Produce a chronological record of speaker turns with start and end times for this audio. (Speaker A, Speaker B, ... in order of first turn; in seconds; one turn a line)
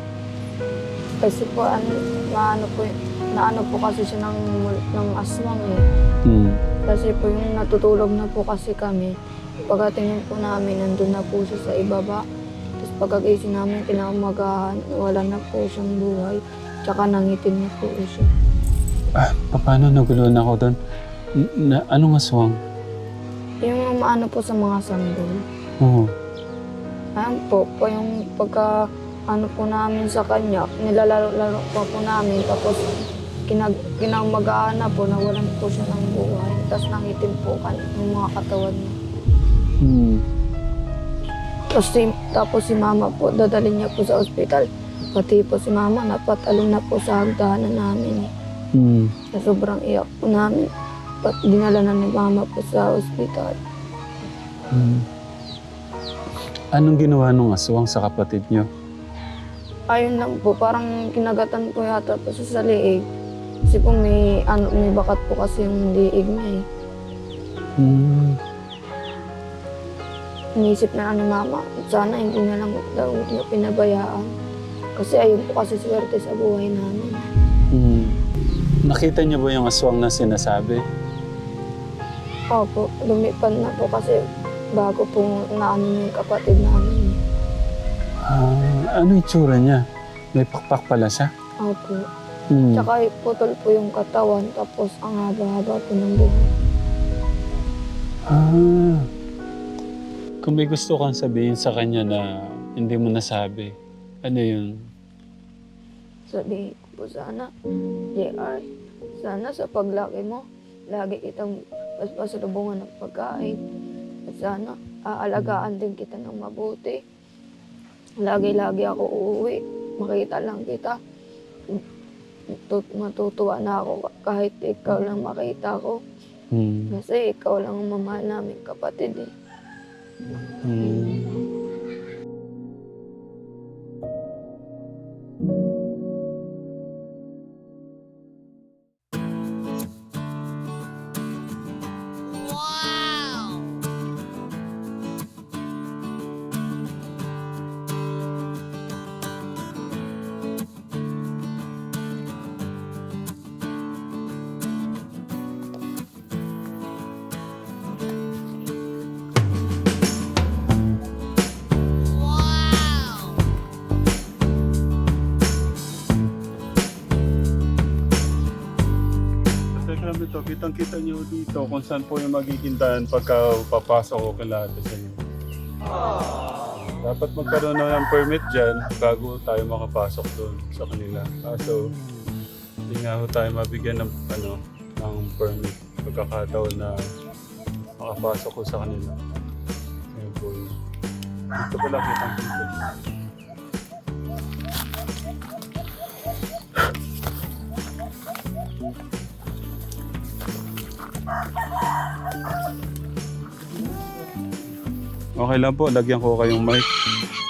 Speaker A: 1.2-5.8
Speaker B: 6.3-6.6
Speaker A: 6.9-9.2
Speaker A: 9.7-12.2
Speaker A: 12.8-18.3
Speaker B: 19.2-20.8
Speaker B: 21.4-22.6
Speaker A: 23.6-25.4
Speaker B: 25.8-26.1
Speaker A: 27.2-28.7
Speaker A: 29.3-32.8
Speaker A: 33.5-39.0
Speaker B: 39.8-40.2
Speaker A: 41.7-48.3
Speaker B: 48.8-49.1
Speaker A: 49.3-50.7
Speaker A: 51.2-53.6
Speaker B: 54.7-55.0
Speaker B: 56.7-58.7
Speaker A: 59.9-63.0
Speaker A: 63.7-66.6
Speaker B: 67.8-68.4
Speaker A: 70.6-74.3
Speaker A: 75.0-77.2
Speaker B: 77.7-78.2
Speaker B: 78.9-80.8
Speaker A: 82.5-84.2
Speaker A: 84.8-87.2
Speaker B: 88.2-89.8
Speaker B: 90.3-91.3
Speaker A: 91.6-92.0
Speaker B: 92.5-92.9
Speaker A: 92.7-96.5
Speaker B: 98.3-99.1
Speaker B: 100.4-103.7
Speaker B: 104.2-104.8
Speaker A: 106.3-107.5
Speaker A: 108.2-108.7
Speaker A: 109.2-113.6
Speaker A: 114.3-117.0
Speaker A: 118.2-121.0
Speaker A: 122.5-126.0
Speaker B: 126.5-127.0
Speaker A: 126.9-129.3
Speaker B: 130.6-131.4
Speaker B: 169.7-175.2
Speaker B: 176.8-181.9
Speaker B: 182.9-187.1
Speaker B: 188.0-189.1
Speaker B: 190.2-190.7
Speaker B: 191.6-192.8
Speaker B: 205.4-206.9